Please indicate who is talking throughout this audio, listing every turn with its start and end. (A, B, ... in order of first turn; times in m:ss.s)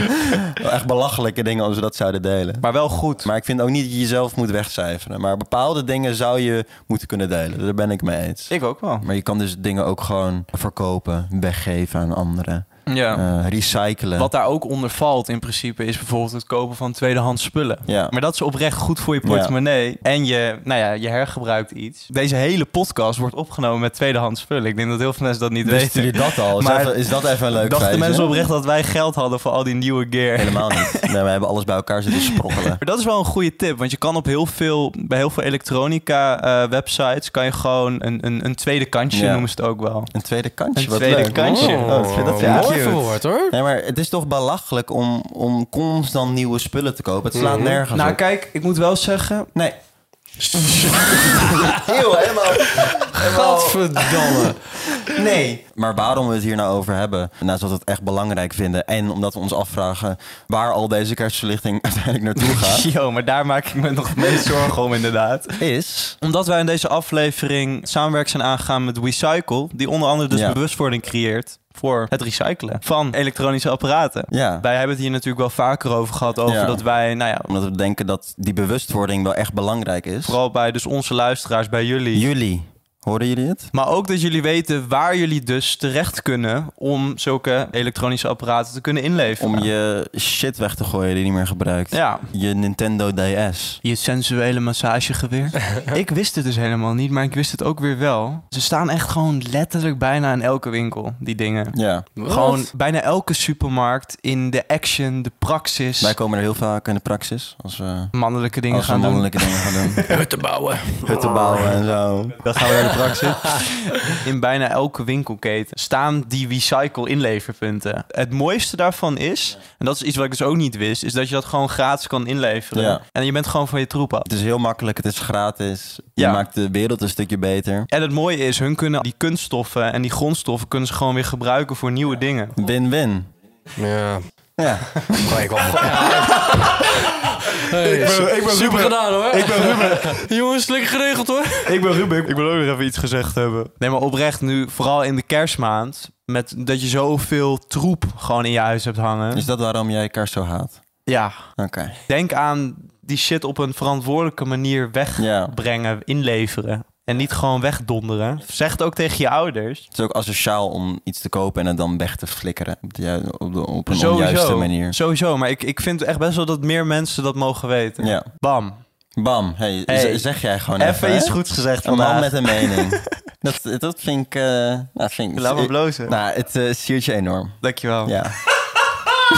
0:00.5-0:02.7 A
0:02.6-0:03.3 B
0:03.2-0:14.3 A
0:08.5-0:09.1 B
0:12.9-0:13.3 B
0:14.2-0:27.0 B
0:17.9-0:18.2 A
0:19.2-0:19.5 A
0:25.6-0:28.5 A
0:27.6-0:31.1 B
0:30.4-0:32.8 A
0:32.8-0:40.1 B
0:39.1-0:39.5 A
0:40.1-0:48.2 A
0:40.8-0:42.7 B
0:41.5-0:43.5 C
0:47.3-0:47.8 C
0:47.9-0:49.5 B
0:50.4-0:51.9 C
0:51.0-0:54.4 A
0:53.2-0:54.6 C
0:55.0-1:02.9 A
1:02.4-1:05.6 B
1:05.6-1:06.2 A
1:06.2-1:17.5 B
1:10.3-1:10.6 A
1:14.3-1:14.7 A
1:16.5-1:16.8 A
1:17.5-1:20.4 A
1:20.2-1:22.3 B
1:22.1-1:23.7 A
1:23.7-1:29.7 B
1:29.4-1:33.8 A
1:31.9-1:32.3 B
1:33.8-1:46.2 B
1:41.7-1:42.1 A
1:42.2-1:42.7 C
1:46.0-1:48.1 A
1:48.1-1:50.0 B
1:48.7-1:50.0 A
1:50.0-1:51.8 C
1:51.0-1:53.2 A
1:52.4-2:04.3 B
2:02.7-2:03.0 A
2:04.3-2:07.9 A
2:06.2-2:06.5 B
2:07.9-2:12.6 B
2:12.6-2:13.3 A
2:13.8-2:14.2 C
2:14.6-2:15.5 A
2:15.2-2:21.8 C
2:17.5-2:20.2 B
2:21.7-2:29.5 B
2:29.3-2:30.8 A
2:31.1-2:31.5 B
2:31.6-2:32.0 A
2:32.1-2:39.8 B
2:35.2-2:35.5 A
2:39.9-2:45.0 A
2:43.9-2:48.8 B
2:48.0-2:48.3 A
2:49.2-2:58.4 A
2:49.9-2:53.0 B
2:55.4-2:56.2 B
2:57.6-2:58.2 B